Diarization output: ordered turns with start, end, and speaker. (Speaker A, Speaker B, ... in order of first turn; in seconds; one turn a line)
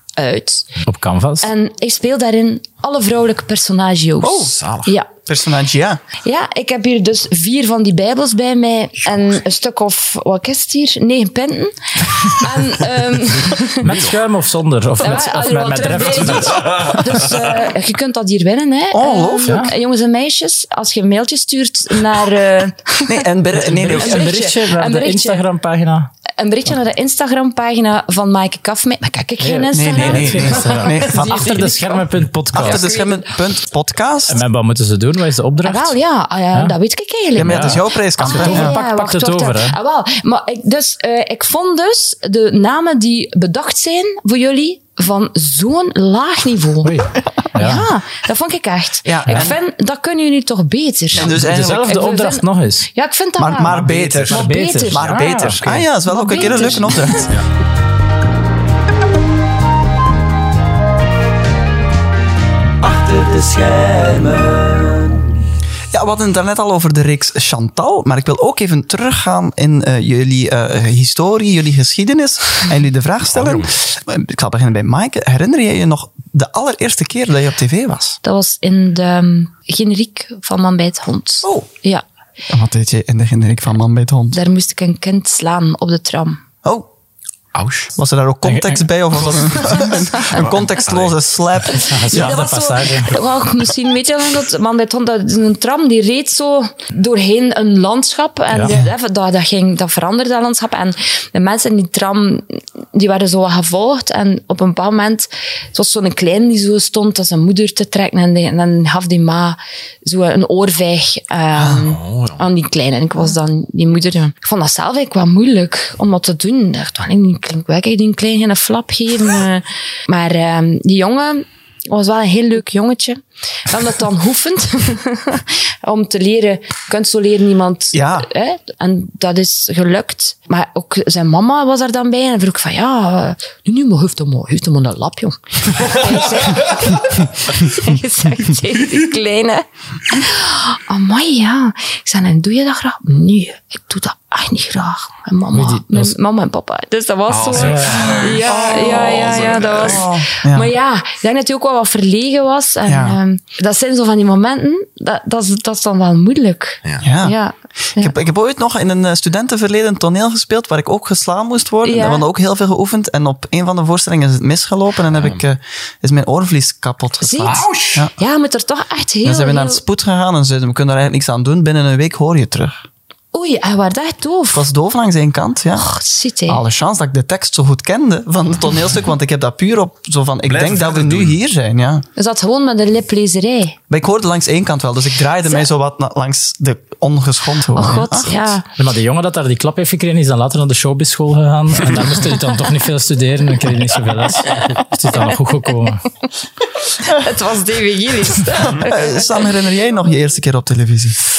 Speaker A: 0.1-0.7
Speaker B: 0.8-1.5
Speaker A: 1.4-5.1
Speaker C: 4.2-4.5
Speaker D: 4.5-4.9
Speaker C: 5.2-6.0
Speaker A: 6.2-14.0
Speaker B: 13.8-16.8
Speaker D: 13.8-14.1
Speaker A: 15.0-23.2
Speaker D: 16.2-17.3
Speaker C: 18.9-19.7
Speaker C: 23.0-24.3
Speaker B: 23.5-26.1
Speaker A: 23.8-25.4
Speaker A: 26.4-33.3
Speaker B: 29.4-32.9
Speaker C: 29.7-31.8
Speaker C: 32.5-34.4
Speaker B: 34.3-36.0
Speaker A: 35.6-47.0
Speaker C: 37.3-38.8
Speaker B: 37.4-39.8
Speaker B: 46.8-47.9
Speaker A: 47.5-55.0
Speaker C: 49.0-49.6
Speaker C: 51.1-52.0
Speaker B: 51.2-52.9
Speaker C: 53.4-57.3
Speaker D: 53.6-54.3
Speaker B: 54.3-55.6
Speaker A: 56.0-57.3
Speaker C: 62.8-65.2
Speaker C: 65.9-78.2
Speaker D: 73.3-73.7
Speaker A: 78.2-82.0
Speaker C: 82.5-84.4
Speaker A: 84.3-86.4
Speaker D: 87.5-87.9
Speaker C: 88.0-92.4
Speaker B: 88.4-88.8
Speaker D: 90.3-91.2
Speaker B: 91.8-93.2
Speaker A: 92.1-158.1
Speaker B: 98.5-98.8
Speaker D: 111.7-112.4
Speaker C: 127.9-128.3
Speaker B: 145.5-146.1
Speaker D: 147.3-150.0
Speaker B: 147.5-148.1
Speaker C: 148.8-149.1
Speaker C: 149.8-150.7
Speaker C: 152.8-153.2
Speaker C: 157.0-157.4
Speaker C: 157.9-168.1
Speaker A: 161.8-162.2
Speaker D: 165.1-165.4
Speaker A: 167.2-169.8
Speaker D: 167.4-168.0
Speaker C: 169.2-172.8
Speaker A: 173.3-174.7
Speaker C: 174.5-175.9
Speaker A: 175.8-176.6
Speaker C: 176.5-182.0
Speaker D: 180.4-181.4
Speaker A: 182.2-183.8
Speaker C: 183.9-188.4
Speaker A: 187.7-188.6
Speaker B: 188.8-196.0
Speaker A: 196.9-199.2
Speaker C: 198.7-201.2